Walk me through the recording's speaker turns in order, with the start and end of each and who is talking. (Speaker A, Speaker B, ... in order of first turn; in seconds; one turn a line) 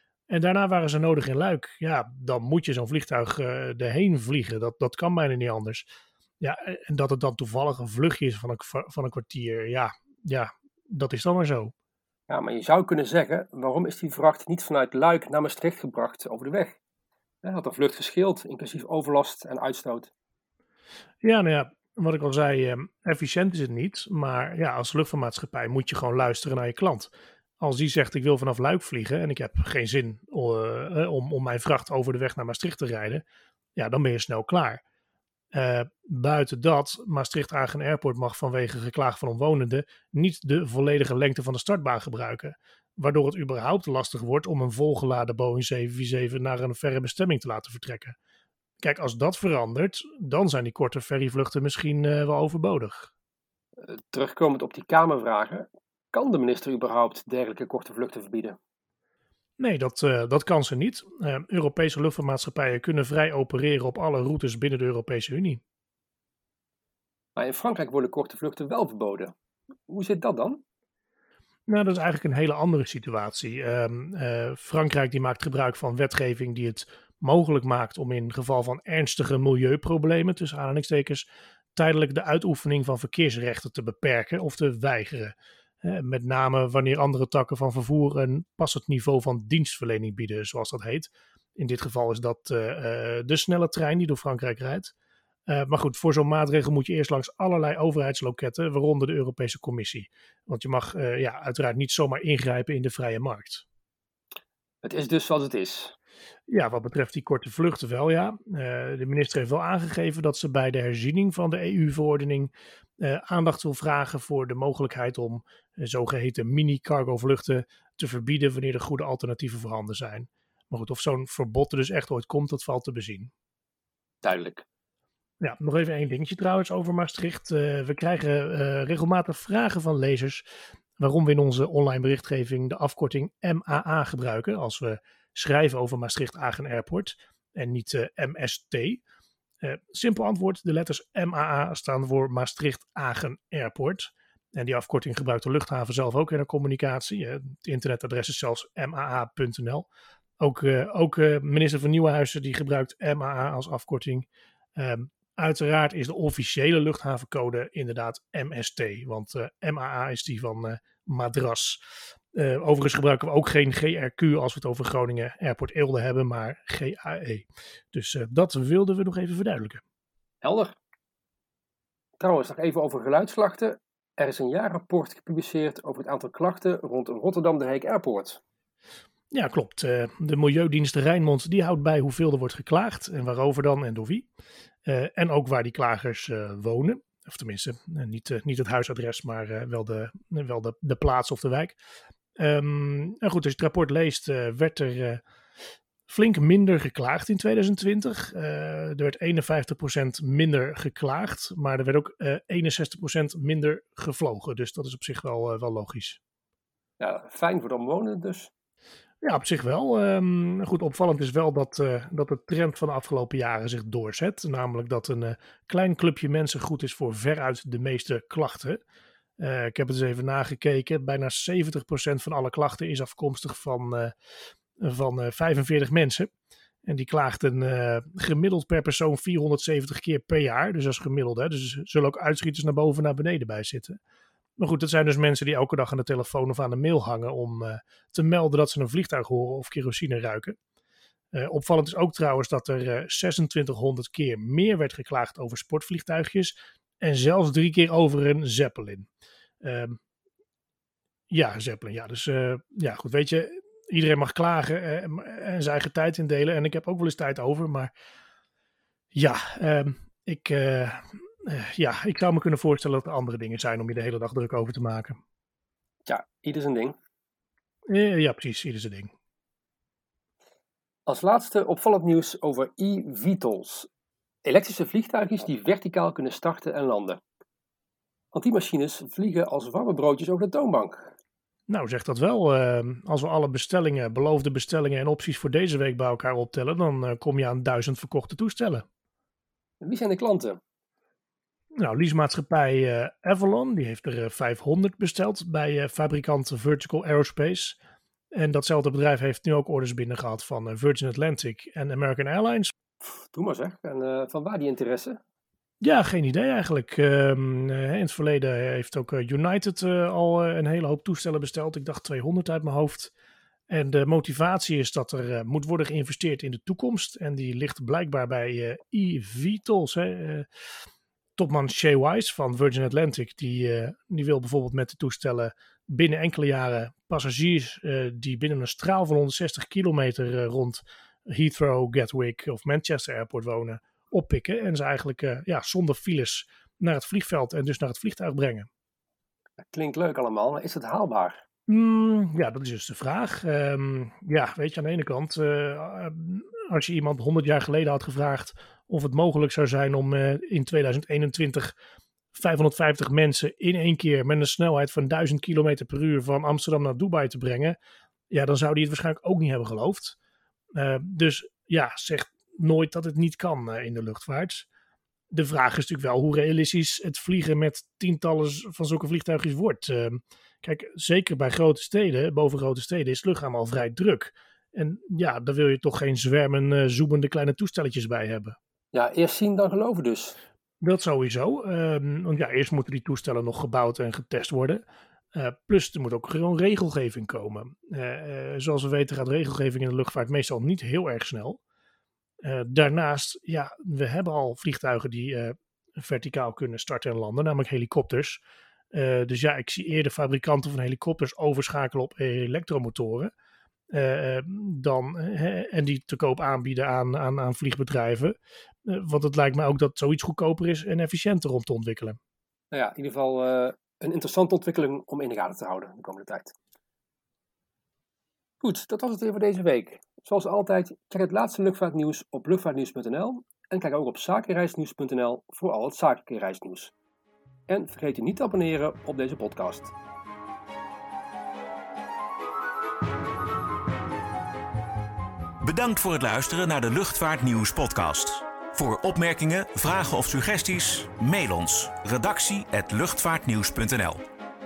Speaker A: 0.3-5.9
Speaker A: 6.4-11.7
Speaker B: 12.3-16.8
Speaker B: 17.4-20.1
Speaker A: 21.2-33.2
Speaker A: 33.8-34.8
Speaker A: 35.5-48.2
Speaker A: 48.8-53.1
Speaker B: 53.8-58.6
Speaker A: 59.6-65.6
Speaker B: 67.4-69.3
Speaker B: 69.9-70.6
Speaker A: 71.7-94.9
Speaker A: 95.5-103.7
Speaker B: 104.8-106.0
Speaker A: 106.5-123.3
Speaker B: 124.2-124.7
Speaker A: 125.4-130.5
Speaker A: 131.0-139.0
Speaker A: 139.6-149.9
Speaker A: 150.4-161.8
Speaker A: 162.3-169.8
Speaker B: 170.4-170.8
Speaker B: 172.2-178.4
Speaker A: 179.3-184.3
Speaker A: 184.8-191.8
Speaker A: 192.4-195.2
Speaker A: 196.1-206.2
Speaker B: 207.0-208.5
Speaker A: 209.2-218.8
Speaker A: 219.4-224.1
Speaker A: 224.8-226.3
Speaker A: 226.8-234.0
Speaker A: 234.6-240.6
Speaker A: 241.3-249.1
Speaker A: 249.6-250.0
Speaker A: 251.3-257.9
Speaker A: 259.1-265.2
Speaker B: 266.1-267.0
Speaker A: 267.9-269.1
Speaker B: 271.1-273.9
Speaker B: 274.4-277.2
Speaker B: 278.3-281.1
Speaker A: 281.7-288.9
Speaker B: 289.8-290.6
Speaker A: 291.8-297.8
Speaker A: 298.3-302.7
Speaker B: 303.0-305.2
Speaker A: 305.8-313.1
Speaker A: 313.7-320.5
Speaker A: 321.4-338.7
Speaker B: 339.6-341.4
Speaker A: 341.7-351.8
Speaker A: 352.3-357.8
Speaker A: 358.3-360.2
Speaker A: 360.8-364.7
Speaker A: 365.3-378.6
Speaker B: 378.9-380.4
Speaker A: 380.8-384.8
Speaker A: 385.3-391.6
Speaker A: 392.4-398.4
Speaker A: 398.9-403.3
Speaker A: 403.9-412.2
Speaker B: 412.7-416.6
Speaker B: 418.6-426.9
Speaker B: 427.7-429.9
Speaker C: 435.6-444.2